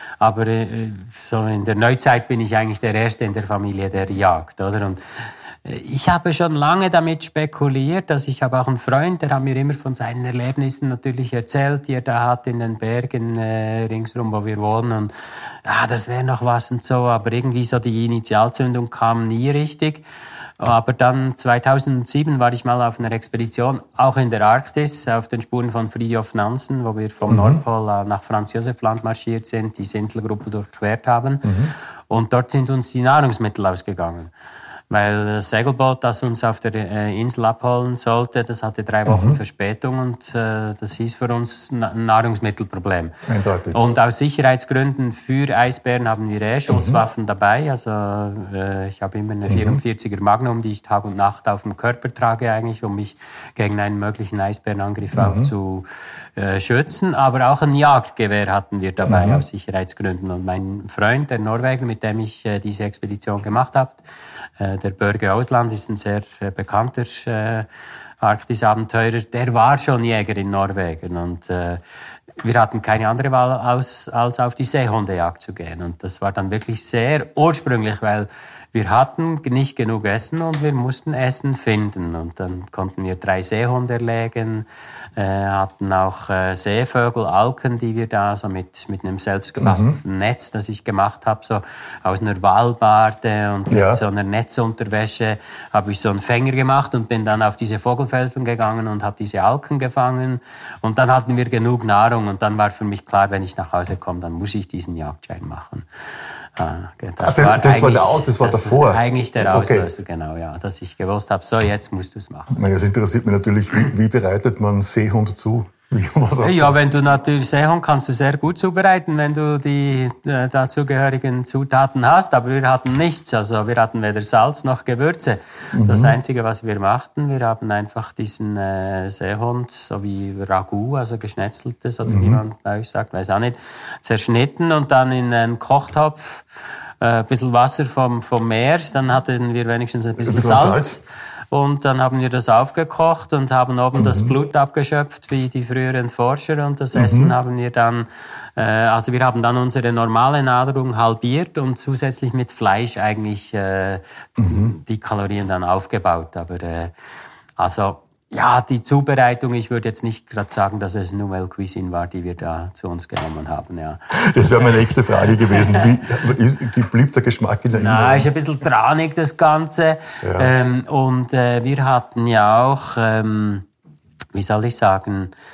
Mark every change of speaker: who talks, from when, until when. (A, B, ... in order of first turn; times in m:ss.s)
0:00.2-0:20.0 A
0:20.6-0:34.3 A
0:27.3-0:27.6 B
0:31.4-0:31.7 B
0:34.9-0:43.1 A
0:39.1-0:39.4 B
0:43.3-0:43.8 B
0:43.7-1:04.1 A
0:46.7-0:47.0 B
0:49.5-0:49.8 B
0:55.2-0:55.5 B
0:59.0-0:59.4 B
1:04.6-1:07.7 A
1:08.2-1:11.8 A
1:12.4-1:45.9 A
1:29.6-1:30.0 B
1:33.7-1:34.0 B
1:46.6-1:52.6 A
1:47.2-1:49.9 B
1:52.5-1:56.8 B
1:56.4-2:36.9 A
2:05.7-2:06.2 B
2:12.0-2:12.4 B
2:20.2-2:21.0 B
2:24.0-2:24.3 B
2:27.0-2:27.3 B
2:34.4-2:34.8 B
2:37.6-2:45.9 A
2:44.1-2:48.3 B
2:47.7-2:53.7 A
2:50.2-2:50.5 B
2:54.3-2:55.3 A